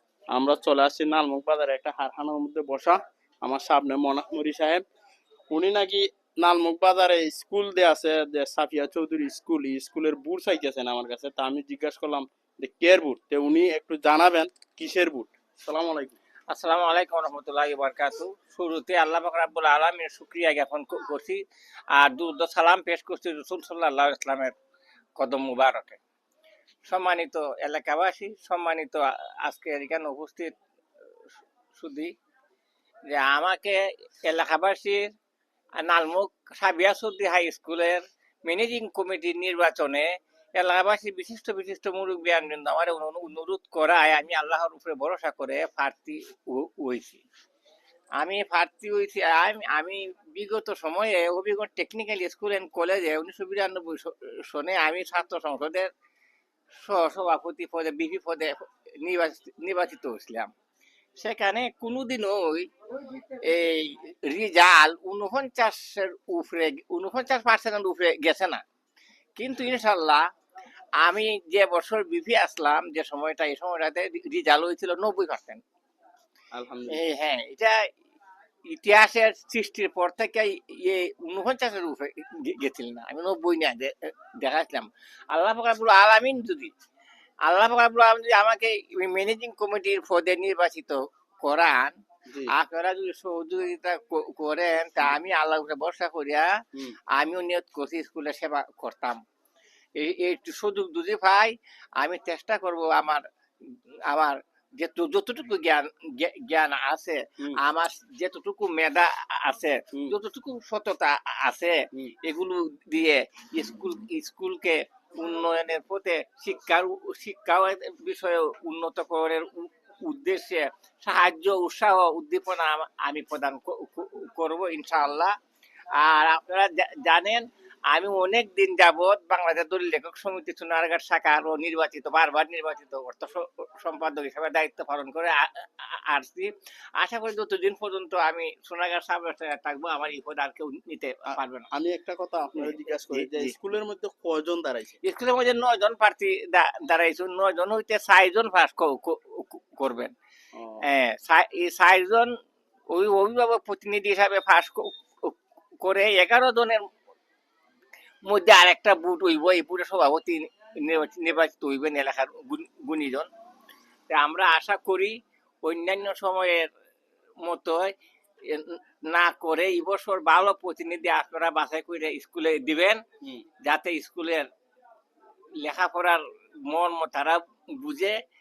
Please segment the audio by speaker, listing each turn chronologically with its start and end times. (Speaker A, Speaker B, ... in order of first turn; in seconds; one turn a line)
Speaker A: 0.3-4.8
Speaker A: 5.5-16.2
Speaker B: 16.5-21.4
Speaker B: 21.9-24.5
Speaker B: 25.2-26.0
Speaker B: 26.9-30.5
Speaker B: 31.7-32.1
Speaker B: 33.1-35.1
Speaker B: 35.8-47.2
Speaker B: 48.2-55.9
Speaker B: 56.8-60.5
Speaker B: 61.2-68.6
Speaker B: 69.4-70.2
Speaker B: 71.0-75.6
Speaker A: 76.5-77.0
Speaker B: 76.9-77.7
Speaker B: 78.7-86.7
Speaker B: 87.4-91.9
Speaker A: 92.3-92.5
Speaker B: 92.5-96.5
Speaker B: 97.1-99.2
Speaker B: 100.0-103.2
Speaker B: 104.1-125.3
Speaker B: 126.0-141.7
Speaker A: 141.3-145.0
Speaker B: 143.1-143.5
Speaker B: 145.0-150.1
Speaker A: 150.5-150.8
Speaker B: 150.8-152.3
Speaker B: 152.9-156.8
Speaker B: 158.2-163.3
Speaker B: 164.1-166.7
Speaker B: 167.4-167.9
Speaker B: 168.5-173.0
Speaker B: 173.6-174.5
Speaker B: 175.6-178.2